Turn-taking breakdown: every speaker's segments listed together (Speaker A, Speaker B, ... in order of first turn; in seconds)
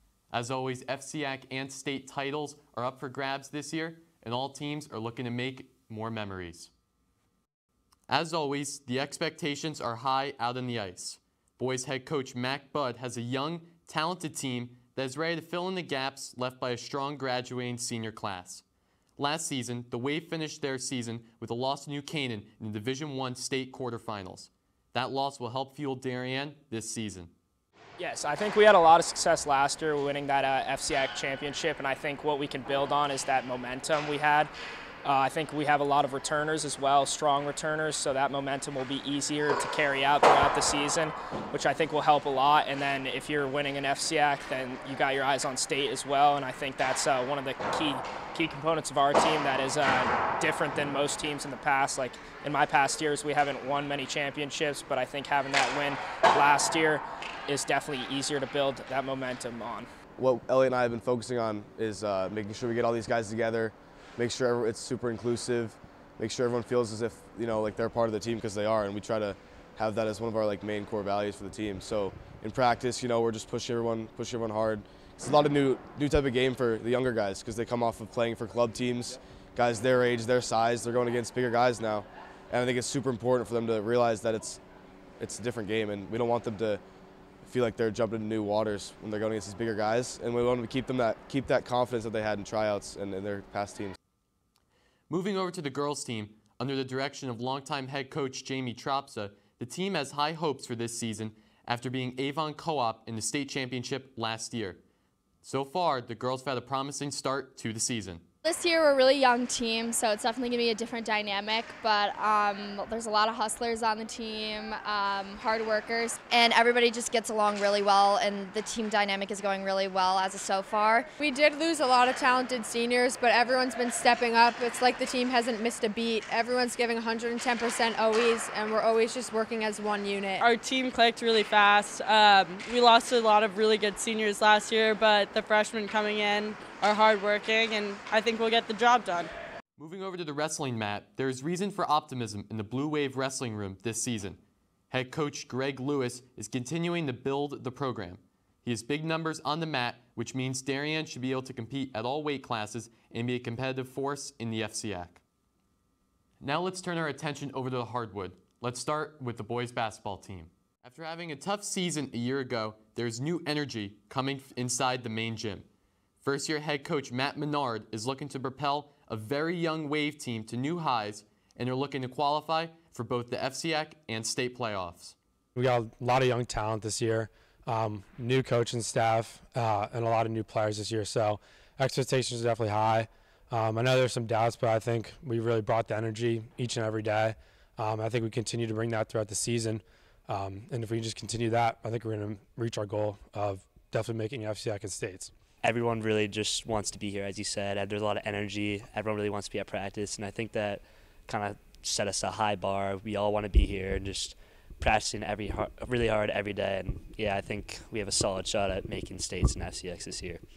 Speaker A: 0.3-6.7, 8.1-18.6, 19.2-27.3, 95.1-104.8, 105.4-108.2, 139.8-144.4, 144.9-155.2, 156.4-165.7, 166.2-175.2
Speaker B: 28.0-34.5, 35.0-59.9
Speaker C: 60.2-84.6, 85.2-86.8, 87.4-94.0
Speaker D: 108.5-121.1
Speaker E: 121.2-130.4
Speaker F: 130.4-139.3
Speaker G: 175.6-195.3
Speaker H: 195.6-210.4